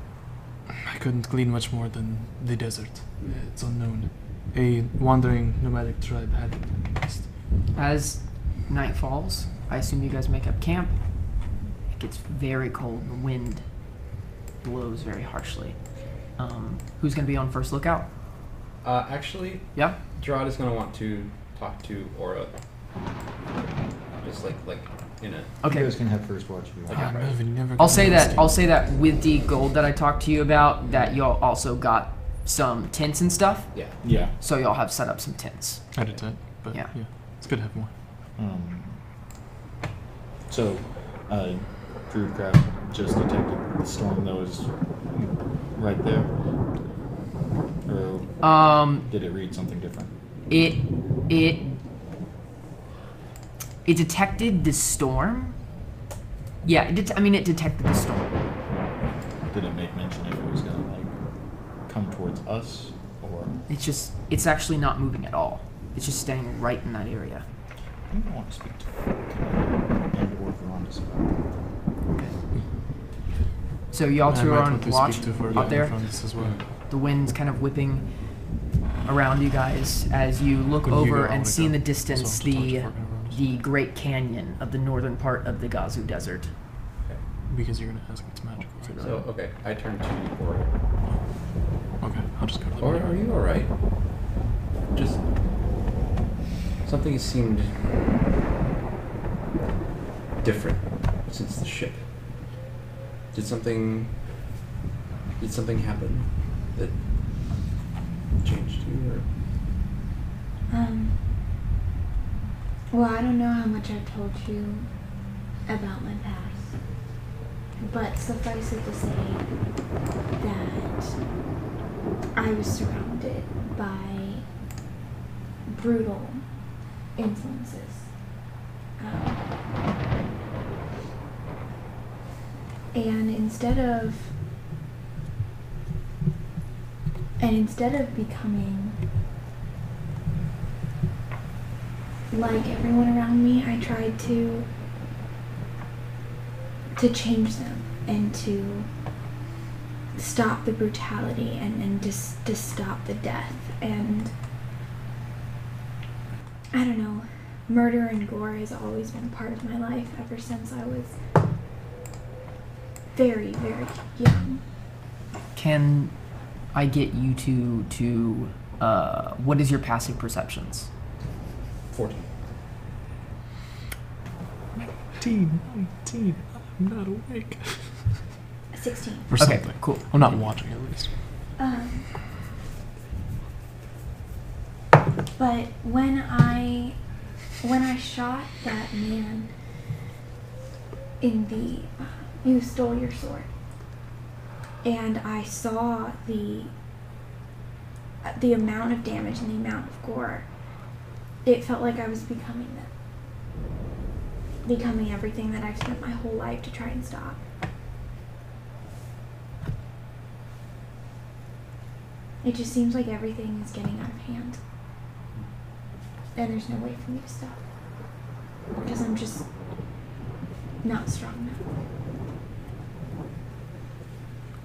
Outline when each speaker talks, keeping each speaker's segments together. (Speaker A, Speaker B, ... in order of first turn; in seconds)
Speaker A: 0.8-7.3, 26.9-28.6, 35.9-37.9, 74.2-76.7, 80.8-83.4, 87.5-89.3, 92.0-93.1, 175.2-178.1, 179.3-181.1
Speaker B: 7.7-10.9, 11.9-13.6, 14.6-15.8, 16.4-18.1, 25.6-25.9, 27.8-33.7, 34.4-35.9, 48.4-49.1, 50.5-51.8, 53.8-55.6, 56.6-58.5, 63.7-67.4, 72.1-72.4, 73.9-76.1, 76.8-78.4, 79.0-86.5, 165.5-166.2, 166.7-170.9, 179.3-180.5
Speaker C: 18.8-22.5, 24.2-25.5, 26.9-27.4, 33.7-34.0, 76.4-76.6, 89.0-90.7, 92.8-93.7, 94.9-95.2, 96.8-97.8, 100.4-102.0, 103.3-104.1, 105.4-106.9, 108.4-109.2, 171.9-172.3
Speaker D: 25.6-27.1, 34.0-34.4, 38.4-39.0, 40.5-46.3, 47.9-50.1, 59.5-61.1, 61.8-63.6, 68.1-71.6
Speaker E: 110.7-111.3, 112.9-114.9, 115.7-116.7, 117.8-119.5, 120.4-121.2, 122.3-124.4, 125.7-126.4, 127.2-128.1, 129.0-129.4, 132.9-134.3, 137.4-138.9, 142.3-144.7, 146.9-148.9, 150.1-154.3, 156.7-161.2, 163.1-164.6, 178.7-179.3, 181.6-182.1, 185.3-186.9, 187.6-189.5, 191.2-193.5, 194.8-196.7, 198.2-200.4, 201.4-202.9, 204.6-207.4, 212.4-214.6, 216.3-217.6, 218.8-219.4, 220.8-221.6